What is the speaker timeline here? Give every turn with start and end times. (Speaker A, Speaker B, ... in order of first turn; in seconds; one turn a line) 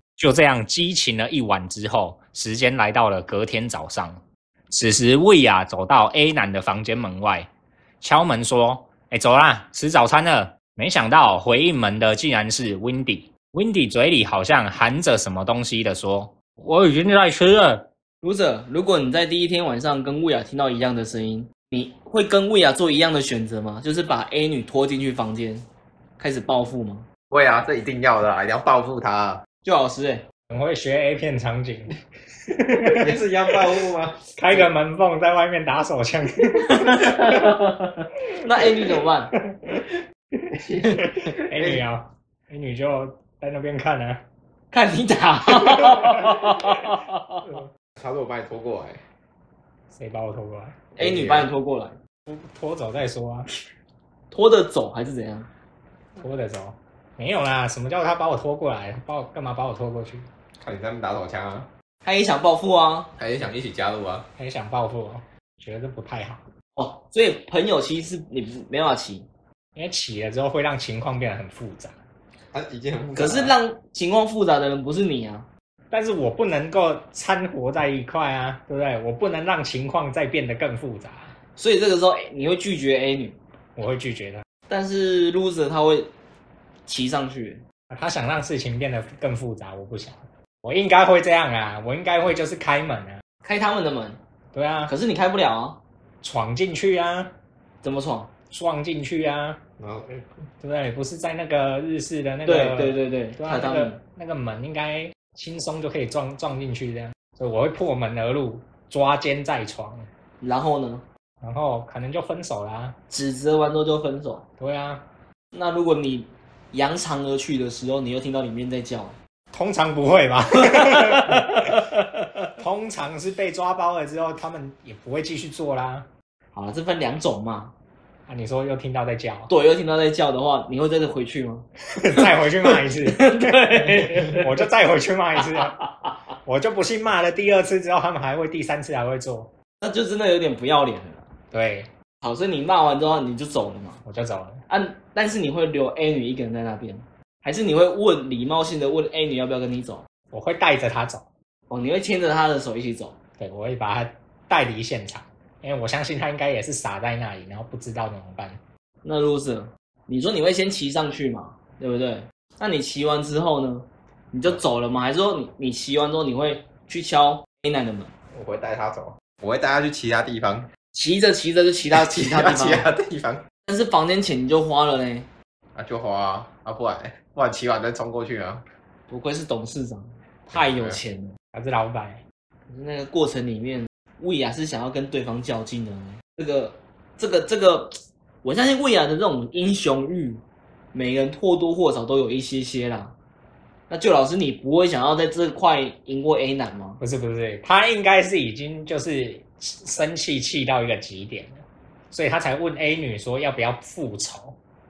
Speaker A: 0.2-4.2
Speaker A: 4.7-7.5
Speaker A: 8.0-17.9
Speaker B: 18.2-25.6
Speaker B: 26.2-27.1
Speaker C: 27.3-29.4
Speaker B: 29.6-30.2
Speaker A: 30.5-31.9
Speaker A: 32.5-33.2
Speaker C: 32.9-34.7
Speaker A: 34.3-37.8
Speaker B: 36.7-37.6
Speaker B: 38.4-39.3
Speaker A: 39.3-39.9
Speaker C: 40.7-41.8
Speaker A: 40.8-44.2
Speaker B: 44.7-47.4
Speaker A: 45.6-46.7
Speaker C: 48.0-49.0
Speaker A: 49.9-50.8
Speaker B: 51.0-52.0
Speaker C: 51.0-51.5
Speaker A: 52.3-53.5
Speaker B: 54.3-55.5
Speaker A: 56.1-60.2
Speaker C: 60.6-61.7
Speaker B: 62.0-63.1
Speaker C: 63.2-64.3
Speaker A: 64.4-66.4
Speaker B: 66.8-69.3
Speaker A: 69.8-71.9
Speaker C: 72.5-73.5
Speaker B: 73.2-75.5
Speaker A: 75.9-81.3
Speaker B: 81.5-83.4
Speaker A: 83.8-84.4
Speaker B: 84.7-86.1
Speaker B: 86.8-87.6
Speaker A: 87.9-93.2
Speaker B: 93.4-94.2
Speaker A: 94.5-94.9
Speaker B: 94.9-95.8
Speaker A: 96.2-97.3
Speaker B: 97.8-98.3
Speaker A: 98.5-99.6
Speaker C: 99.8-100.2
Speaker A: 100.6-110.1
Speaker B: 102.4-104.0
Speaker B: 110.4-111.0
Speaker A: 111.4-113.0
Speaker B: 113.1-114.5
Speaker A: 114.6-115.0
Speaker B: 115.5-119.2
Speaker A: 119.5-121.9
Speaker B: 120.6-122.0
Speaker A: 122.5-126.1
Speaker B: 126.5-127.7
Speaker A: 128.3-129.5
Speaker B: 129.5-134.6
Speaker A: 132.0-135.8
Speaker B: 135.4-136.1
Speaker A: 136.4-139.5
Speaker B: 139.8-141.2
Speaker A: 141.5-141.9
Speaker B: 142.2-144.0
Speaker A: 144.0-144.6
Speaker B: 144.7-150.0
Speaker A: 150.3-151.2
Speaker B: 151.7-153.2
Speaker A: 153.4-158.6
Speaker B: 159.0-168.1
Speaker C: 168.3-170.7
Speaker B: 170.9-172.8
Speaker C: 171.9-173.4
Speaker B: 173.7-175.3
Speaker C: 175.8-178.6
Speaker B: 179.1-181.3
Speaker C: 180.5-181.0
Speaker A: 181.5-182.2
Speaker B: 182.7-190.4
Speaker B: 190.9-193.1
Speaker B: 193.9-197.0
Speaker A: 197.0-204.6